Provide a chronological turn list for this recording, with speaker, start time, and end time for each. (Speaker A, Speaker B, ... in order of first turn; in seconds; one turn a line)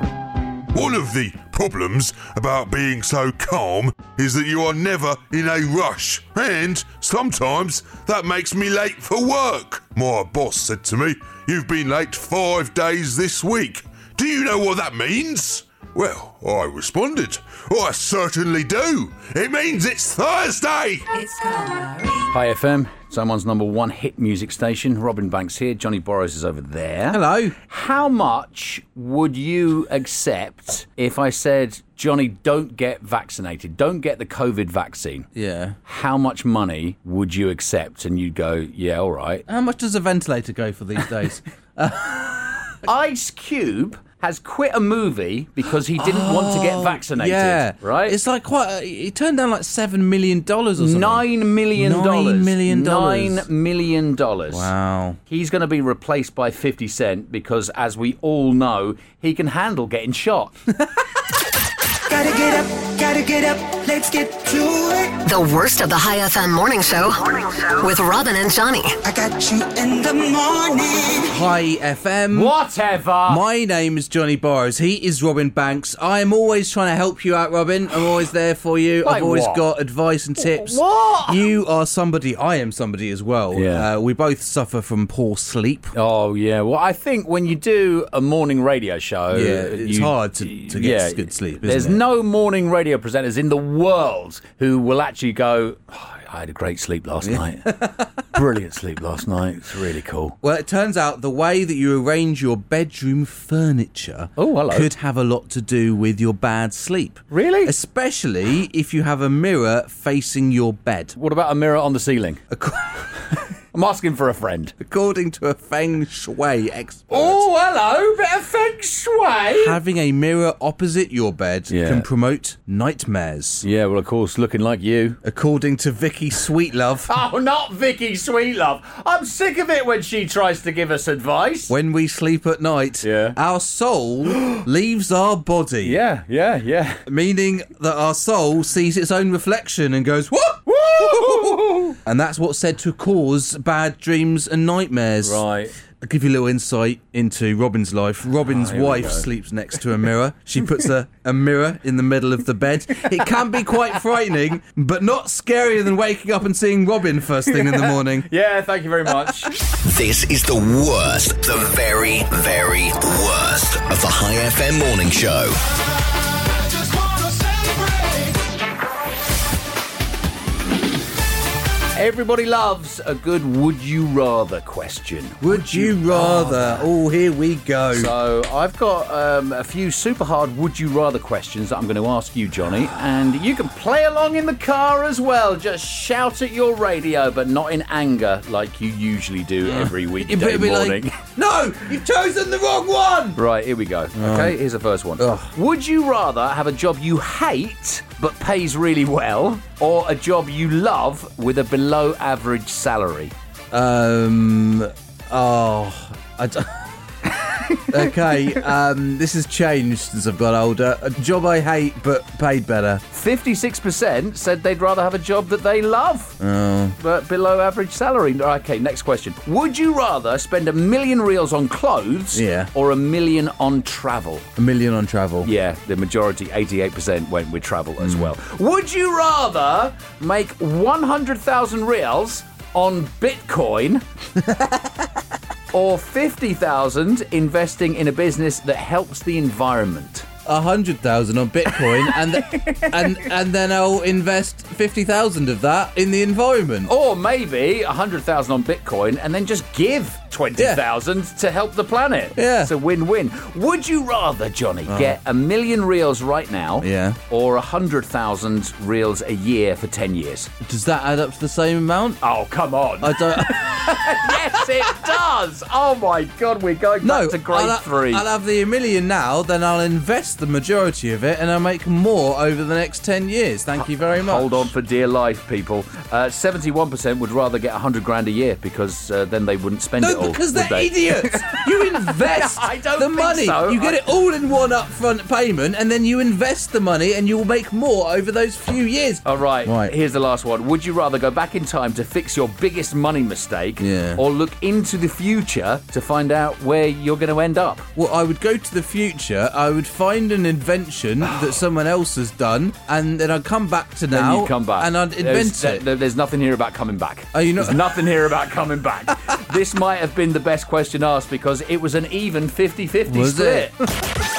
Speaker A: 0.7-21.1
Speaker B: 22.3-35.3
Speaker C: 27.1-27.6
Speaker C: 35.4-35.8
Speaker B: 35.9-39.5
Speaker C: 39.5-42.8
Speaker B: 42.8-48.2
Speaker C: 46.0-53.5
Speaker B: 50.8-54.7
Speaker C: 54.5-55.2
Speaker B: 55.3-60.6
Speaker D: 62.1-65.2
Speaker E: 65.2-69.0
Speaker D: 69.0-71.4
Speaker C: 71.3-72.5
Speaker B: 72.3-73.4
Speaker C: 73.3-85.9
Speaker B: 79.0-79.6
Speaker B: 80.4-81.4
Speaker B: 83.5-83.9
Speaker B: 85.9-97.8
Speaker C: 89.3-92.0
Speaker C: 97.2-98.2
Speaker B: 98.3-100.3
Speaker C: 100.4-111.2
Speaker B: 104.4-104.9
Speaker B: 107.3-107.7
Speaker B: 111.2-112.4
Speaker C: 112.5-113.2
Speaker B: 113.7-114.8
Speaker C: 114.8-117.5
Speaker B: 117.1-119.8
Speaker C: 119.5-123.7
Speaker B: 121.7-122.1
Speaker B: 123.6-125.2
Speaker C: 125.2-127.1
Speaker B: 127.1-131.7
Speaker C: 131.7-136.0
Speaker B: 133.0-133.4
Speaker B: 134.3-134.6
Speaker B: 135.8-137.0
Speaker C: 137.1-158.3
Speaker B: 140.7-142.0
Speaker B: 145.2-145.8
Speaker B: 148.5-149.3
Speaker B: 157.5-159.5
Speaker F: 159.8-165.6
Speaker D: 166.9-168.3
Speaker B: 171.9-176.9
Speaker C: 175.4-178.1
Speaker B: 177.9-191.2
Speaker C: 189.6-193.4
Speaker B: 193.4-203.3
Speaker C: 194.2-194.6
Speaker C: 195.2-195.5
Speaker C: 203.7-206.9
Speaker C: 207.8-213.0
Speaker B: 213.1-216.4
Speaker C: 216.4-217.0
Speaker B: 217.0-224.5
Speaker C: 222.3-222.7
Speaker C: 224.6-225.5
Speaker B: 225.4-234.1
Speaker C: 228.0-228.3
Speaker C: 234.4-235.1
Speaker B: 235.7-240.3
Speaker C: 240.5-246.9
Speaker B: 242.1-243.1
Speaker B: 246.8-260.5
Speaker C: 250.6-250.8
Speaker C: 252.3-252.7
Speaker C: 254.9-255.2
Speaker C: 256.8-257.2
Speaker C: 260.6-262.2
Speaker B: 262.2-268.2
Speaker C: 263.0-264.6
Speaker C: 267.0-274.7
Speaker B: 274.1-284.0
Speaker C: 280.0-289.9
Speaker B: 289.2-297.9
Speaker C: 293.8-294.2
Speaker C: 297.9-305.9
Speaker B: 304.1-313.8
Speaker C: 307.3-307.9
Speaker C: 313.1-313.7